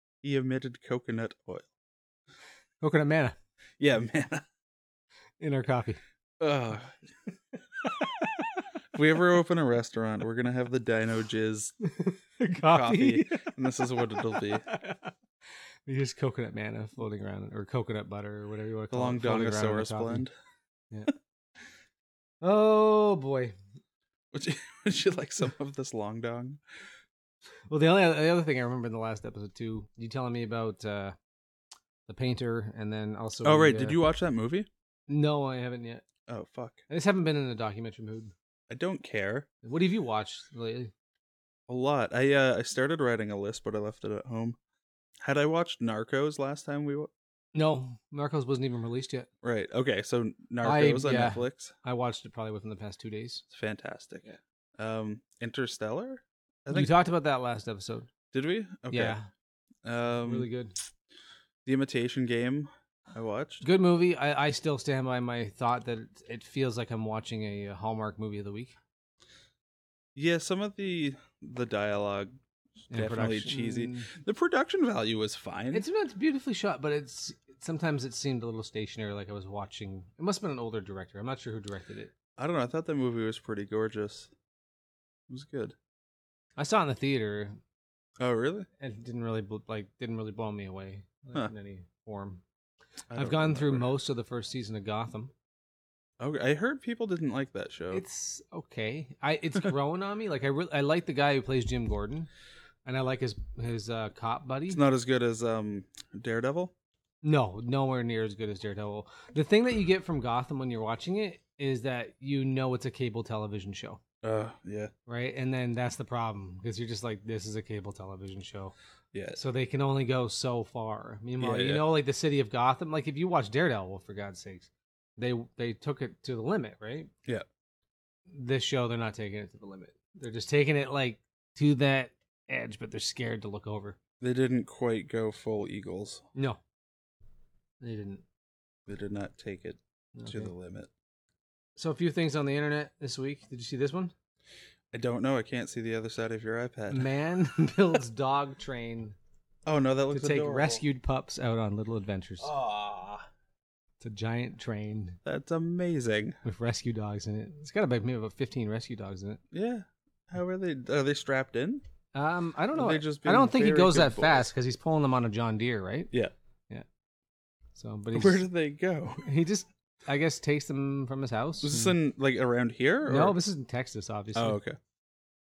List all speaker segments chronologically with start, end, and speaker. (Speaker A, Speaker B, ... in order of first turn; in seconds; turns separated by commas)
Speaker A: 0.2-1.7, Speaker B: 2.8-3.4, Speaker A: 3.8-4.4, Speaker B: 5.4-6.0, Speaker A: 6.4-6.9, Speaker A: 8.9-11.7, Speaker B: 11.9-13.5, Speaker A: 12.5-14.6, Speaker B: 14.3-15.1, Speaker B: 15.8-20.2, Speaker A: 18.9-20.3, Speaker B: 22.4-23.5, Speaker A: 24.3-26.6, Speaker B: 27.7-31.1, Speaker B: 32.1-34.0, Speaker A: 33.4-34.7, Speaker B: 35.1-36.0, Speaker A: 36.3-36.8, Speaker B: 36.9-38.3, Speaker A: 38.7-39.5, Speaker B: 39.6-40.9, Speaker A: 41.7-44.6, Speaker A: 45.2-47.1, Speaker B: 47.5-49.3, Speaker A: 49.4-51.7, Speaker B: 50.6-53.4, Speaker A: 53.5-56.9, Speaker B: 56.7-58.1, Speaker A: 58.3-59.2, Speaker B: 58.9-59.2, Speaker A: 59.8-60.5, Speaker B: 60.2-60.8, Speaker A: 61.6-63.6, Speaker B: 63.6-68.8, Speaker A: 70.1-72.3, Speaker A: 72.9-75.8, Speaker B: 72.9-74.1, Speaker B: 75.7-82.1, Speaker A: 82.4-84.3, Speaker A: 85.3-85.7, Speaker B: 86.6-87.6, Speaker A: 88.2-88.7, Speaker B: 88.8-92.4, Speaker A: 93.1-94.0, Speaker B: 93.1-95.3, Speaker A: 96.2-98.0, Speaker B: 97.9-102.3, Speaker B: 102.8-104.8, Speaker A: 104.7-106.7, Speaker B: 107.2-114.0, Speaker A: 114.2-114.9, Speaker B: 115.1-118.7, Speaker A: 119.1-119.4, Speaker B: 119.3-127.1, Speaker A: 121.4-121.9, Speaker B: 128.3-134.0, Speaker A: 134.2-136.2, Speaker B: 136.3-136.6, Speaker B: 137.8-138.2, Speaker A: 138.9-140.9, Speaker B: 140.2-140.5, Speaker B: 141.8-144.1, Speaker A: 144.9-147.1, Speaker B: 146.9-149.2, Speaker A: 149.6-150.8, Speaker B: 150.1-152.5, Speaker A: 152.4-153.3, Speaker B: 154.0-155.2, Speaker A: 155.2-156.4, Speaker B: 156.4-159.4, Speaker A: 159.5-161.8, Speaker B: 162.1-166.1, Speaker A: 162.7-164.5, Speaker B: 167.7-168.4, Speaker A: 168.1-169.3, Speaker B: 169.2-172.0, Speaker A: 171.6-173.4, Speaker B: 173.1-174.6, Speaker A: 174.3-174.8